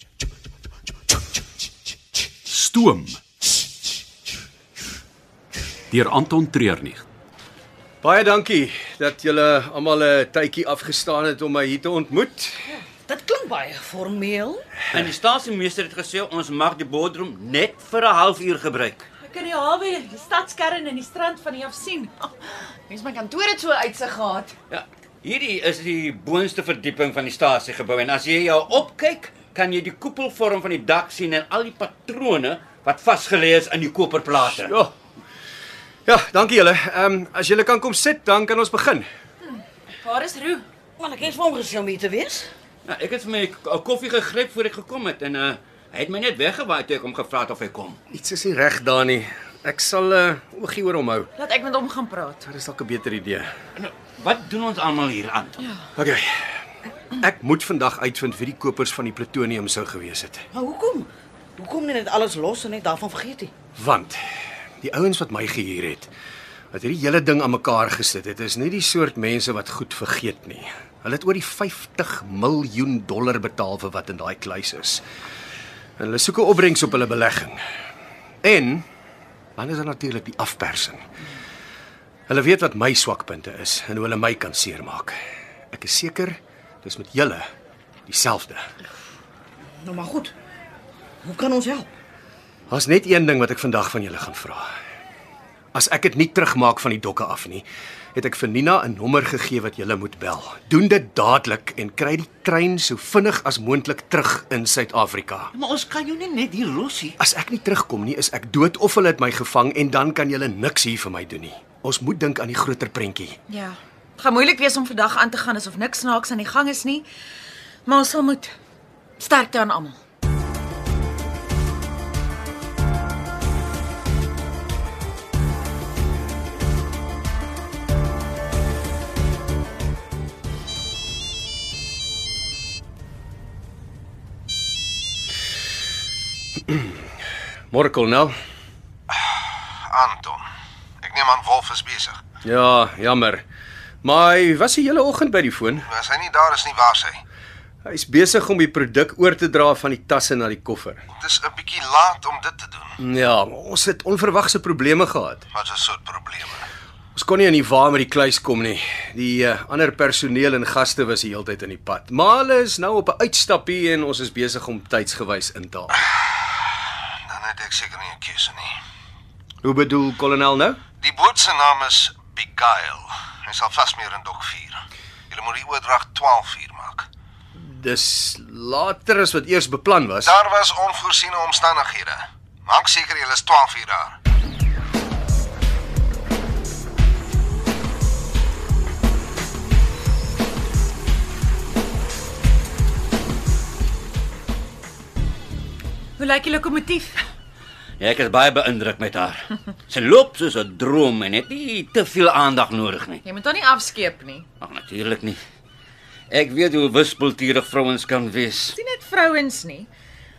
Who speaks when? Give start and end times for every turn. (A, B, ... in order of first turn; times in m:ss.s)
0:02.4-0:03.2 A
0:05.9-0:07.0 A
0:08.0-0:12.6 B
0:13.1-0:14.7 C
0:14.9-0:19.0 D
0:19.2-0:24.5 E
0:24.7-0:34.7 D
0:34.6-0:34.9 B
0:36.0-0:39.1 B
0:39.5-0:40.6 E
0:41.0-0:42.5 C
0:42.8-0:48.0 D
0:48.1-0:51.3 B
0:51.4-0:52.4 E
0:52.4-0:53.5 B
0:53.8-0:55.6 D
0:56.0-0:56.5 B
0:57.1-1:00.4 B
1:00.5-1:03.5 C
1:03.8-1:04.2 B
1:04.8-1:06.1 B
1:06.7-1:15.0 B
1:16.0-1:17.6 B
1:18.4-1:18.8 B
1:19.6-1:21.0 B
1:22.3-1:25.1 B
1:25.7-1:27.4 B
1:28.1-1:28.7 B
1:29.8-1:30.3 C
1:31.2-1:31.9 C
1:32.7-1:34.7 B
1:35.7-1:45.5 B
1:45.5-1:47.2 D
1:47.2-1:53.4 B
1:53.5-1:57.0 E
1:57.8-1:58.5 E
1:59.2-2:00.0 E
2:16.7-2:16.9 B
2:17.7-2:18.3 B
2:19.1-2:20.4 F
2:21.0-2:22.2 F
2:22.4-2:23.4 B
2:24.0-2:25.8 B
2:25.8-2:27.2 F
2:27.8-2:31.0 B
2:31.2-2:33.0 F
2:33.0-2:35.4 B
2:35.5-2:36.7 F
2:37.1-2:45.9 B
2:47.3-2:48.7 F
2:49.6-2:50.8 B
2:51.0-2:57.1 F
2:57.6-3:00.3 B
3:00.2-3:04.2 F
3:16.2-3:17.2 E
3:18.0-3:23.2 D
3:23.2-3:24.4 E
3:24.6-3:25.4 D
3:26.3-3:28.8 D
3:28.7-3:29.9 E